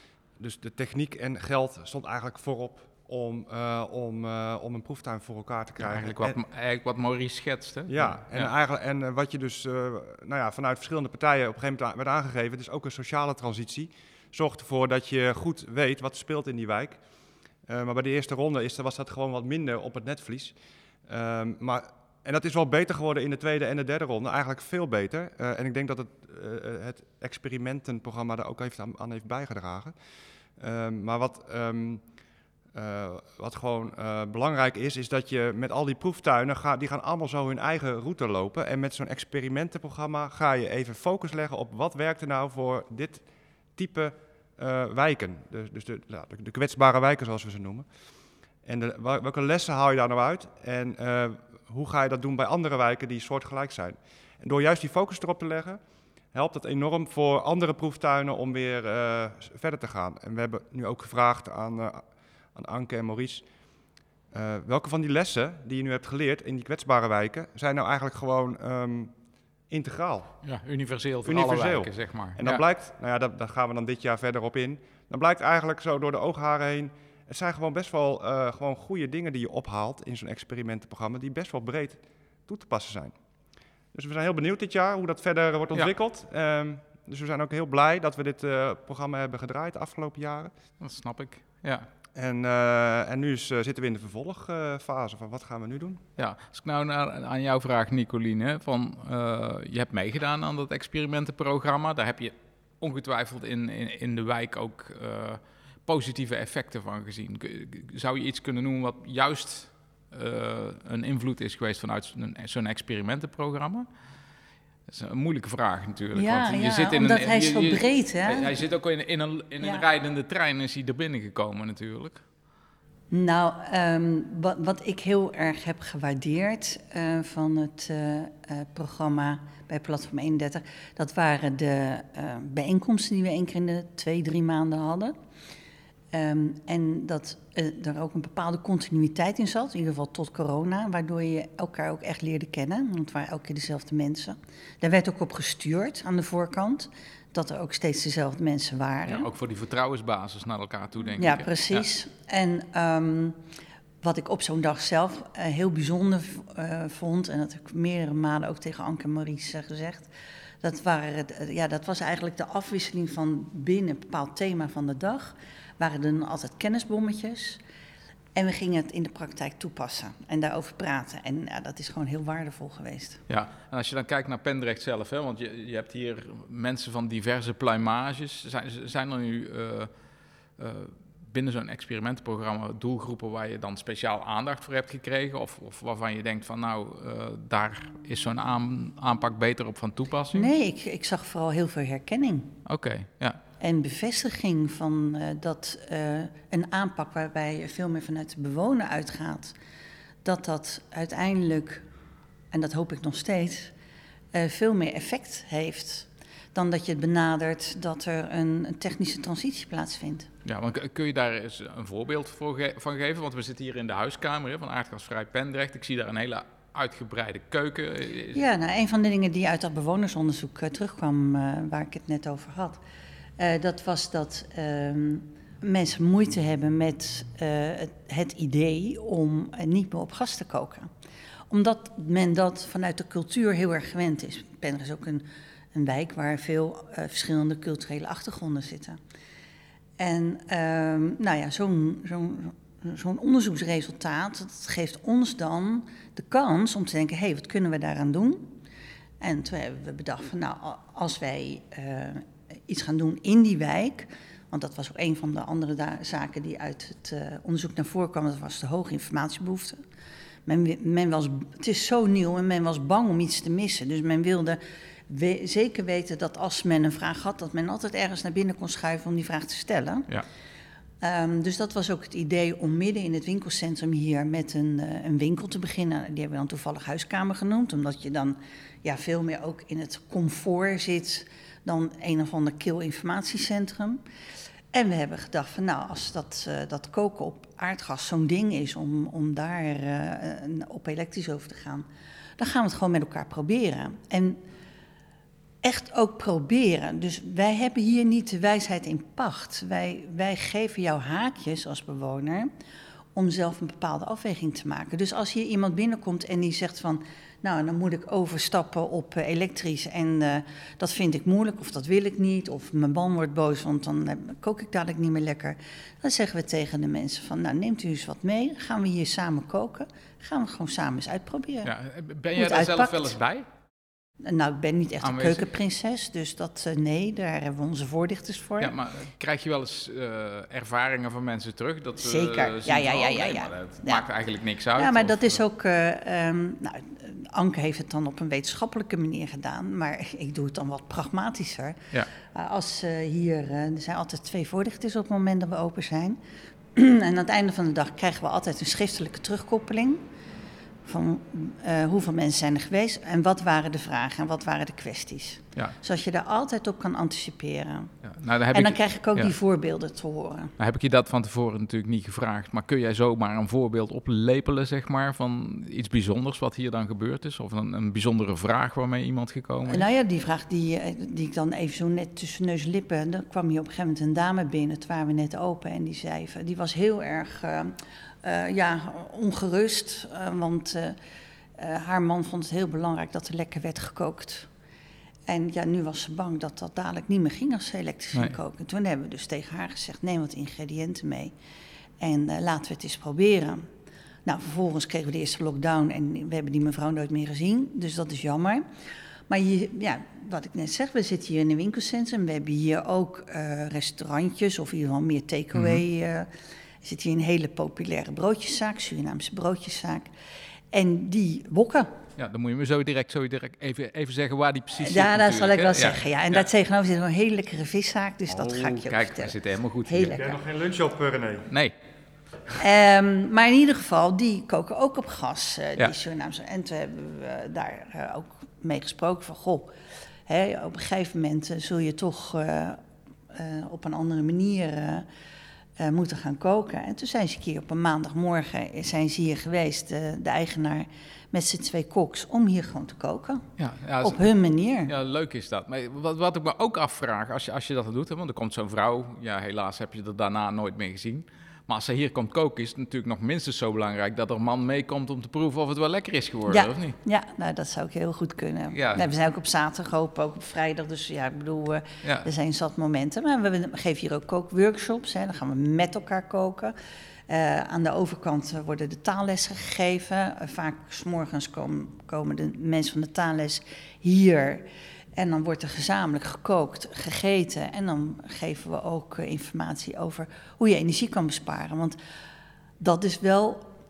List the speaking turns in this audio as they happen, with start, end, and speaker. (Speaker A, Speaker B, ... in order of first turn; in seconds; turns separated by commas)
Speaker A: 0.4-6.4, Speaker B: 5.8-8.5, Speaker A: 7.9-17.0, Speaker A: 17.6-29.9, Speaker A: 30.6-32.0, Speaker A: 32.7-47.9, Speaker A: 48.6-55.8, Speaker A: 56.3-63.5, Speaker A: 64.3-69.1, Speaker A: 69.7-70.3, Speaker B: 70.4-72.6, Speaker A: 71.2-83.2, Speaker A: 83.9-90.5, Speaker B: 90.8-91.9, Speaker A: 92.1-96.0, Speaker B: 96.2-113.9, Speaker B: 114.9-122.2, Speaker C: 116.1-118.6, Speaker C: 123.1-135.1, Speaker C: 136.1-149.3, Speaker B: 149.1-151.8, Speaker C: 151.2-153.4, Speaker C: 154.0-160.1, Speaker C: 160.6-167.6, Speaker C: 168.3-173.2, Speaker B: 173.3-179.9, Speaker B: 180.6-190.5, Speaker C: 190.3-192.5, Speaker B: 192.7-193.4, Speaker C: 193.6-199.5, Speaker C: 200.2-201.8, Speaker C: 202.5-203.7, Speaker C: 204.3-210.3, Speaker B: 210.4-218.4, Speaker C: 218.3-222.8, Speaker C: 223.4-230.9, Speaker C: 231.5-239.0, Speaker C: 240.0-248.6, Speaker C: 249.2-259.8, Speaker C: 260.5-270.1, Speaker C: 271.0-284.0, Speaker C: 284.7-291.9, Speaker C: 292.4-294.4, Speaker C: 295.6-302.5, Speaker C: 303.1-321.7, Speaker B: 321.6-323.4, Speaker C: 322.3-323.1, Speaker C: 324.2-328.7, Speaker B: 325.0-325.4, Speaker B: 328.6-335.4, Speaker C: 332.0-334.1, Speaker C: 334.8-346.2, Speaker C: 346.8-350.1, Speaker C: 350.9-357.9, Speaker B: 358.0-359.3, Speaker C: 358.5-360.5, Speaker B: 360.6-369.9, Speaker C: 369.7-381.0, Speaker C: 381.6-384.5, Speaker C: 385.3-391.3, Speaker C: 392.0-393.7, Speaker C: 394.2-398.6, Speaker C: 399.3-406.3, Speaker B: 405.5-405.8, Speaker C: 406.8-410.1, Speaker C: 410.7-411.9, Speaker B: 412.2-416.4, Speaker C: 414.8-420.4, Speaker B: 418.3-420.2, Speaker A: 420.1-421.5, Speaker B: 421.5-421.7, Speaker C: 422.5-429.7, Speaker C: 430.3-432.8, Speaker C: 433.3-435.1, Speaker C: 435.8-443.5, Speaker B: 443.6-444.2, Speaker C: 444.0-444.9, Speaker B: 444.9-457.0, Speaker C: 456.5-466.7, Speaker B: 458.7-459.1, Speaker C: 467.3-482.0, Speaker C: 482.8-483.7